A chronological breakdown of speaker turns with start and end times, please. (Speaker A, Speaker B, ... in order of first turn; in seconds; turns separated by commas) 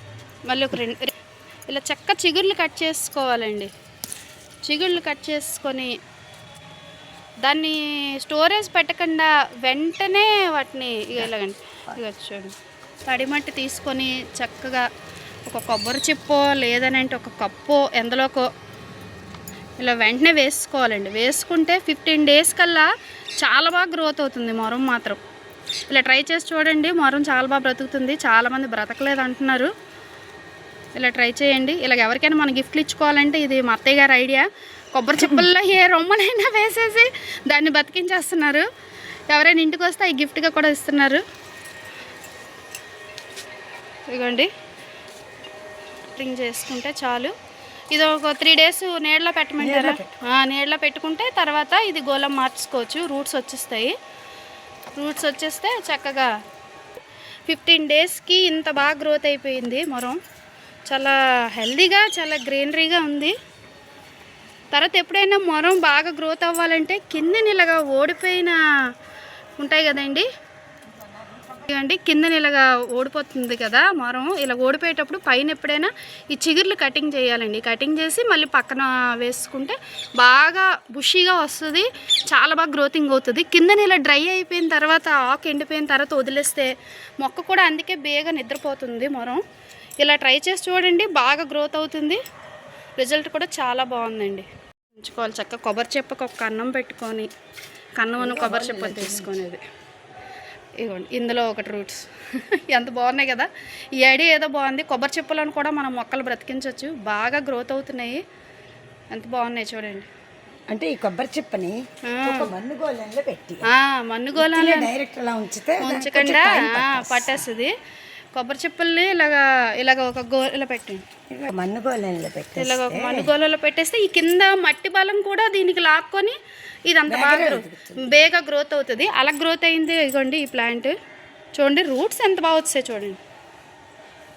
Speaker A: 0.5-1.1, Speaker A: 1.7-3.7, Speaker A: 4.7-5.9, Speaker A: 7.4-12.5, Speaker A: 13.1-14.9, Speaker A: 15.5-18.5, Speaker A: 19.8-22.9, Speaker A: 23.4-25.2, Speaker A: 25.9-29.7, Speaker A: 31.0-38.7, Speaker A: 39.3-41.2, Speaker A: 44.1-44.5, Speaker A: 46.1-47.3, Speaker A: 47.9-54.0, Speaker B: 49.6-50.1, Speaker A: 55.0-56.3, Speaker A: 57.5-60.2, Speaker A: 60.9-63.4, Speaker A: 64.7-68.6, Speaker A: 69.6-70.3, Speaker A: 71.5-89.4, Speaker A: 90.0-92.2, Speaker A: 93.0-97.3, Speaker A: 98.0-99.6, Speaker B: 98.2-99.4, Speaker A: 100.8-108.2, Speaker A: 109.1-110.1, Speaker B: 110.7-113.7, Speaker A: 112.0-112.5, Speaker A: 113.7-114.9, Speaker B: 114.4-117.4, Speaker A: 115.8-117.7, Speaker A: 118.3-121.0, Speaker B: 121.3-123.3, Speaker A: 122.6-126.4, Speaker A: 126.9-130.9, Speaker B: 127.1-128.1, Speaker A: 131.6-133.2